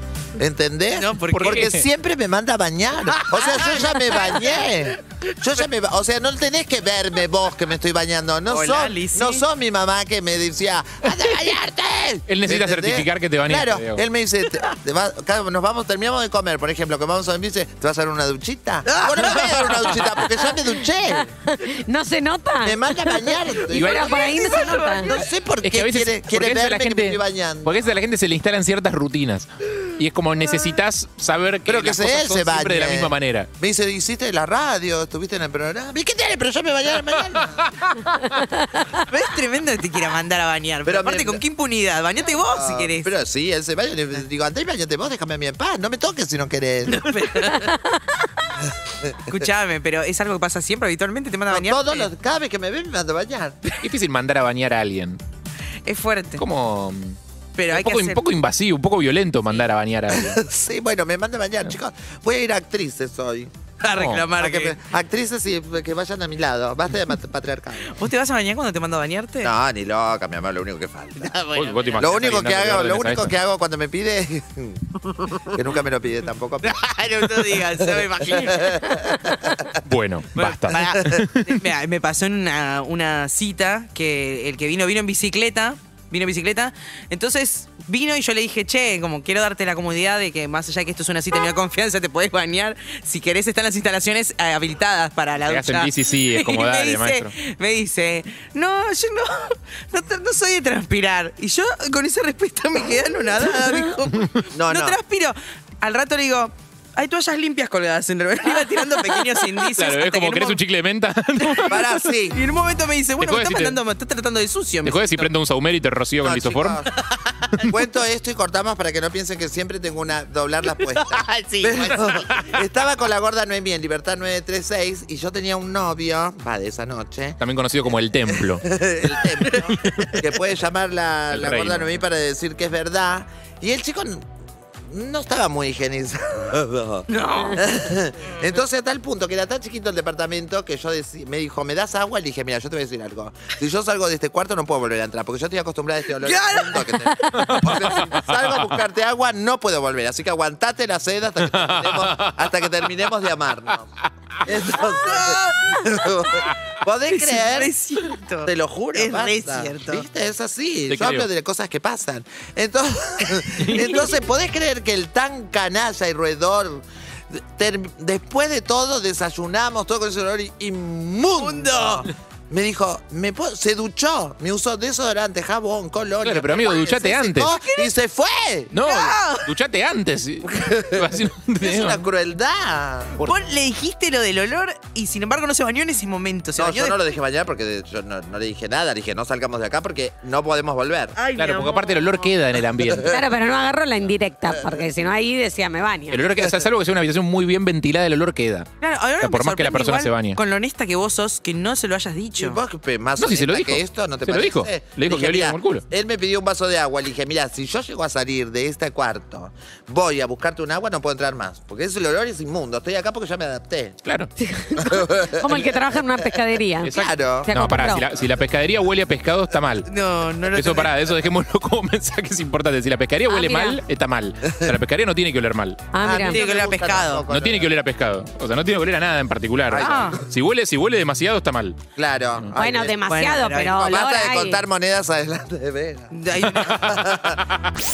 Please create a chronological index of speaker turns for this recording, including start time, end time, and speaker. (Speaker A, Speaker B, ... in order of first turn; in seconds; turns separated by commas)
Speaker A: 0.4-21.3, Speaker B: 0.9-1.7, Speaker C: 1.3-1.8, Speaker B: 3.1-4.6, Speaker B: 8.5-9.4, Speaker C: 12.3-14.0, Speaker B: 18.9-20.0, Speaker D: 21.1-25.1, Speaker A: 22.6-27.7, Speaker C: 23.7-24.1, Speaker C: 25.6-33.5, Speaker A: 31.6-37.6, Speaker B: 38.9-43.1, Speaker A: 40.8-41.4, Speaker A: 42.5-47.0, Speaker B: 46.9-47.8, Speaker B: 49.3-52.1, Speaker A: 51.5-53.6, Speaker C: 53.8-55.2, Speaker B: 55.9-56.4, Speaker C: 56.4-57.2, Speaker B: 57.6-58.2, Speaker C: 57.7-60.4, Speaker A: 60.1-63.5, Speaker B: 63.8-64.8, Speaker C: 64.0-64.2, Speaker A: 64.4-68.0, Speaker B: 67.8-69.5, Speaker A: 69.4-71.3, Speaker B: 71.2-72.3, Speaker C: 71.5-73.3, Speaker A: 72.0-74.8, Speaker A: 75.5-76.8, Speaker B: 76.6-79.1, Speaker A: 78.3-79.5, Speaker C: 79.8-81.5, Speaker B: 80.3-110.6, Speaker C: 95.4-97.3, Speaker A: 104.5-105.0, Speaker C: 109.8-111.9, Speaker B: 111.4-111.7, Speaker A: 111.7-112.4, Speaker B: 112.3-115.3, Speaker C: 113.2-113.8, Speaker C: 114.8-116.8, Speaker A: 116.2-116.9, Speaker A: 117.7-127.4, Speaker B: 120.7-122.1, Speaker C: 127.4-128.6, Speaker A: 128.3-134.2, Speaker C: 131.3-131.9, Speaker A: 134.9-153.9, Speaker B: 137.1-137.6, Speaker B: 146.1-147.6, Speaker C: 147.5-148.0, Speaker C: 151.5-152.5, Speaker A: 154.4-157.7, Speaker B: 154.7-155.9, Speaker B: 157.1-160.1, Speaker A: 158.4-179.0, Speaker C: 160.9-161.3, Speaker B: 163.7-164.1, Speaker B: 171.4-172.1, Speaker C: 176.2-177.5, Speaker B: 177.4-177.9, Speaker C: 178.7-182.0, Speaker B: 178.8-179.5, Speaker A: 180.6-183.2, Speaker B: 183.2-187.0, Speaker A: 186.6-191.2, Speaker B: 191.2-192.3, Speaker C: 191.3-193.2, Speaker A: 192.8-193.1, Speaker D: 193.1-196.2, Speaker A: 194.5-194.8, Speaker C: 196.1-198.7, Speaker B: 198.8-202.6, Speaker C: 199.2-200.4, Speaker A: 202.4-214.0, Speaker C: 203.2-205.8, Speaker C: 214.0-214.3, Speaker D: 214.4-218.1, Speaker A: 214.8-215.6, Speaker C: 216.8-219.9, Speaker A: 216.9-217.5, Speaker B: 219.9-221.0, Speaker C: 220.5-225.9, Speaker D: 223.3-223.8, Speaker D: 225.9-226.4, Speaker A: 226.0-227.7, Speaker B: 226.3-227.2, Speaker C: 227.3-231.8, Speaker A: 229.7-230.2, Speaker B: 229.8-230.2, Speaker A: 231.9-233.0, Speaker D: 232.6-234.6, Speaker B: 233.1-234.0, Speaker A: 233.8-237.4, Speaker B: 236.1-236.9